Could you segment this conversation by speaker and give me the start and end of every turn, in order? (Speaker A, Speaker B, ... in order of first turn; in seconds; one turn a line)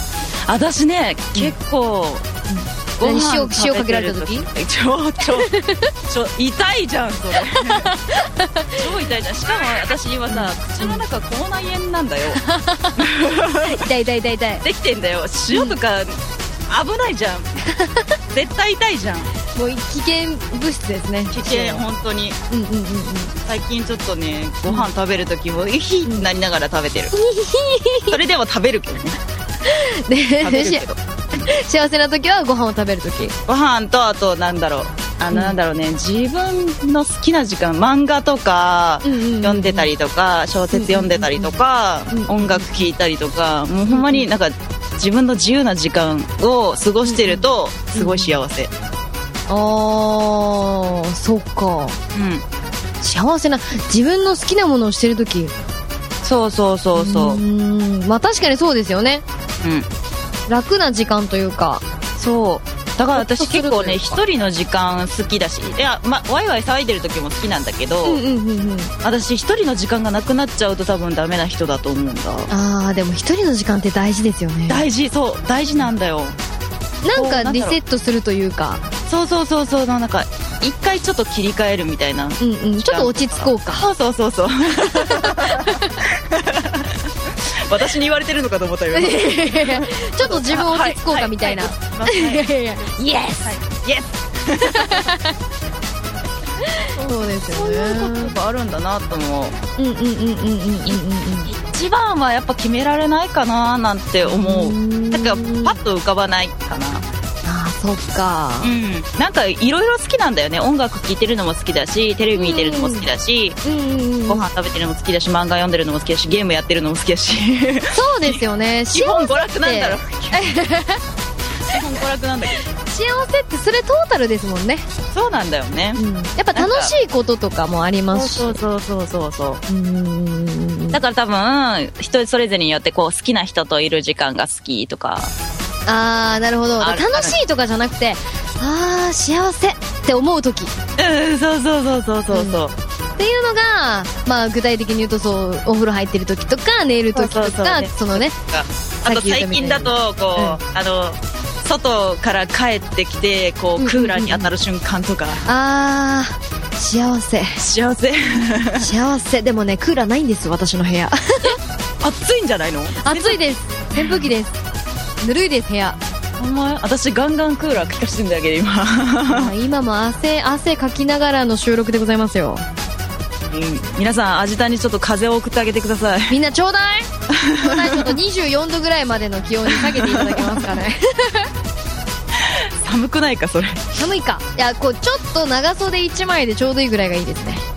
Speaker A: 0.5-2.3
Speaker B: 2.5-4.5
Speaker A: 3.0-5.5
Speaker B: 5.5-5.8
Speaker A: 6.1-7.9
Speaker B: 7.5-8.8
Speaker A: 8.7-12.4
Speaker B: 10.3-11.0
Speaker B: 12.3-13.0
Speaker A: 13.0-13.8
Speaker B: 13.6-14.6
Speaker A: 14.6-17.5
Speaker B: 15.5-15.8
Speaker B: 17.8-18.0
Speaker A: 18.3-19.3
Speaker B: 19.6-21.8
Speaker A: 21.3-22.4
Speaker B: 22.5-23.3
Speaker A: 23.5-27.1
Speaker B: 27.1-28.2
Speaker A: 28.1-29.2
Speaker B: 29.6-30.8
Speaker A: 30.4-31.4
Speaker B: 31.4-33.4
Speaker A: 33.5-48.7
Speaker B: 39.0-39.9
Speaker B: 40.7-41.6
Speaker B: 42.1-42.8
Speaker B: 43.9-44.3
Speaker B: 47.0-48.4
Speaker B: 49.5-52.0
Speaker A: 52.1-52.4
Speaker B: 53.0-55.5
Speaker A: 56.2-57.4
Speaker B: 57.0-59.2
Speaker B: 60.5-61.8
Speaker A: 62.2-68.2
Speaker B: 63.1-64.2
Speaker B: 68.0-68.9
Speaker A: 69.0-72.5
Speaker B: 72.5-74.8
Speaker A: 74.7-76.4
Speaker B: 77.0-78.9
Speaker A: 77.2-77.8
Speaker A: 79.1-95.1
Speaker B: 82.4-83.9
Speaker B: 84.8-85.9
Speaker B: 88.9-93.6
Speaker B: 94.6-95.3
Speaker B: 96.8-98.3
Speaker A: 96.9-99.6
Speaker B: 99.8-101.5
Speaker A: 100.9-107.1
Speaker B: 104.2-105.8
Speaker B: 107.4-108.7
Speaker A: 108.6-113.6
Speaker B: 112.3-113.1
Speaker B: 113.6-114.5
Speaker A: 114.3-120.6
Speaker B: 117.9-121.0
Speaker A: 121.6-122.6
Speaker B: 122.7-124.9
Speaker A: 125.1-126.0
Speaker B: 126.0-128.6
Speaker A: 126.5-126.9
Speaker A: 128.1-129.6
Speaker B: 129.7-131.0
Speaker A: 130.9-135.3
Speaker B: 135.9-140.7
Speaker A: 136.8-137.4
Speaker A: 141.0-142.8
Speaker B: 142.3-142.6
Speaker B: 143.2-148.3
Speaker A: 147.1-155.4
Speaker B: 149.1-150.6
Speaker B: 153.8-154.5
Speaker B: 155.5-157.6
Speaker A: 157.6-158.9
Speaker B: 158.8-161.6
Speaker A: 162.0-163.4
Speaker B: 163.0-164.6
Speaker A: 163.9-164.3
Speaker B: 165.2-166.0
Speaker A: 166.4-169.5
Speaker B: 169.3-172.7
Speaker A: 173.5-176.4
Speaker B: 176.3-181.5
Speaker A: 177.3-178.2
Speaker A: 179.7-180.8
Speaker A: 182.3-183.9
Speaker B: 184.0-187.6